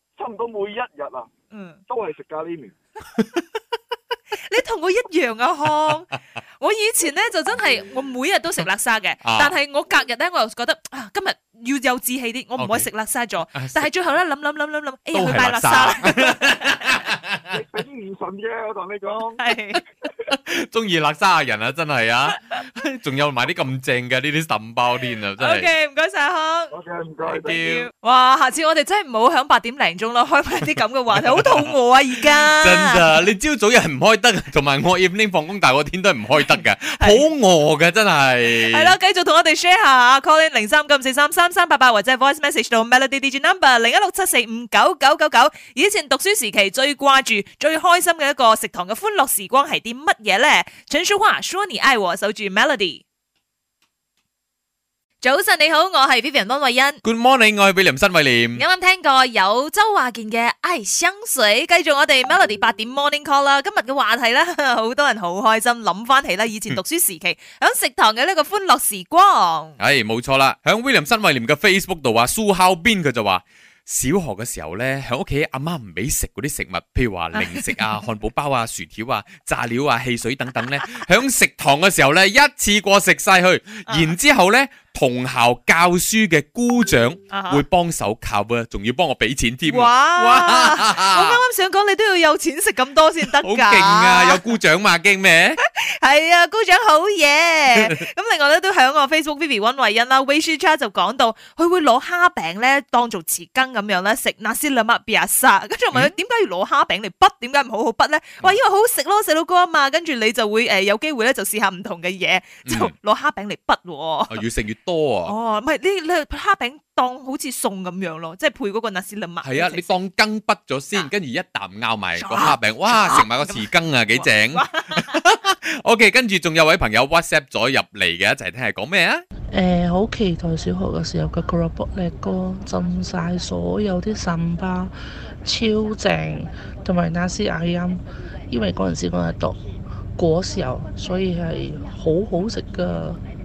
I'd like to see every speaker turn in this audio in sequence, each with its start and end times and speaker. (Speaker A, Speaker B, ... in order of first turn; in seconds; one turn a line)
Speaker A: 0.2-1.3
Speaker B: 1.5-1.8
Speaker A: 1.9-2.7
Speaker B: 4.3-16.8
Speaker C: 9.2-9.5
Speaker C: 12.6-12.9
Speaker C: 13.5-13.9
Speaker C: 15.1-17.6
Speaker A: 17.5-19.4
Speaker B: 19.4-19.8
Speaker C: 20.3-25.7
Speaker B: 25.4-26.7
Speaker A: 26.7-27.6
Speaker C: 27.2-27.9
Speaker B: 27.6-33.2
Speaker C: 32.4-39.0
Speaker B: 37.0-37.2
Speaker B: 38.6-53.0
Speaker B: 55.2-57.0
Speaker C: 57.0-58.6
Speaker B: 58.6-69.8
Speaker C: 69.8-91.4
Speaker B: 77.3-77.8
Speaker B: 83.9-84.2
Speaker B: 87.3-87.6
Speaker B: 89.7-94.4
Speaker C: 93.4-95.6
Speaker B: 95.6-114.4
Speaker C: 97.7-98.0
Speaker C: 112.7-112.9
Speaker C: 114.3-115.3
Speaker B: 115.3-119.9
Speaker C: 119.4-129.2
Speaker B: 122.2-125.2
Speaker D: 129.5-134.9
Speaker D: 135.4-139.6
Speaker D: 140.2-143.2